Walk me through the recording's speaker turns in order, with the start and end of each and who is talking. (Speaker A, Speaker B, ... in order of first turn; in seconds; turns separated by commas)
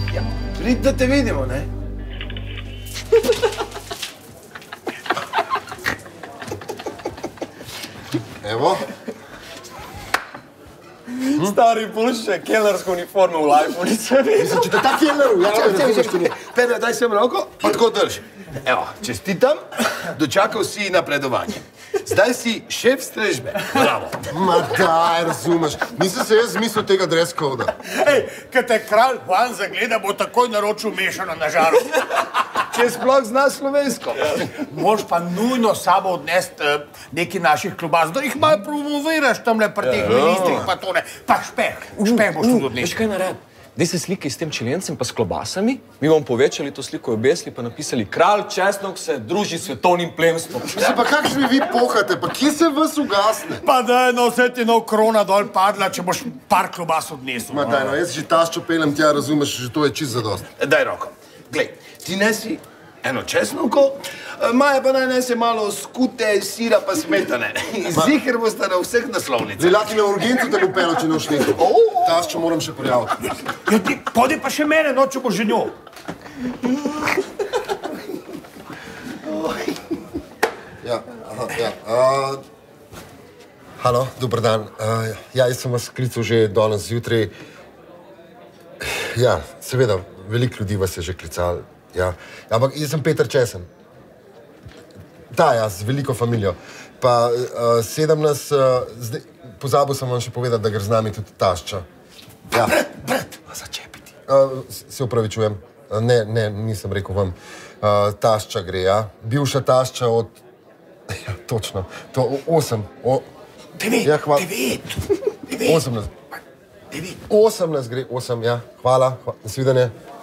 Speaker A: 0.5-1.7, Speaker B: 8.4-8.8, Speaker C: 11.1-14.7, Speaker B: 14.4-16.3, Speaker A: 15.4-24.3, Speaker B: 24.3-27.7, Speaker D: 27.9-32.1, Speaker A: 32.7-34.5, Speaker C: 34.2-34.5, Speaker D: 34.5-43.0, Speaker C: 39.8-40.1, Speaker A: 40.0-40.7, Speaker C: 42.0-50.9, Speaker B: 50.7-53.6, Speaker D: 53.6-57.7, Speaker B: 57.5-60.5, Speaker A: 57.7-58.0, Speaker A: 60.6-69.9, Speaker B: 69.6-73.2, Speaker D: 73.7-75.7, Speaker A: 79.3-79.7, Speaker B: 80.8-82.4, Speaker B: 83.8-87.3, Speaker B: 88.8-93.7, Speaker B: 95.3-101.8, Speaker B: 102.5-102.8, Speaker A: 103.3-103.9, Speaker B: 104.3-110.4, Speaker B: 111.1-113.3, Speaker D: 113.8-115.8, Speaker B: 114.0-114.5, Speaker B: 115.6-116.1, Speaker B: 117.2-119.9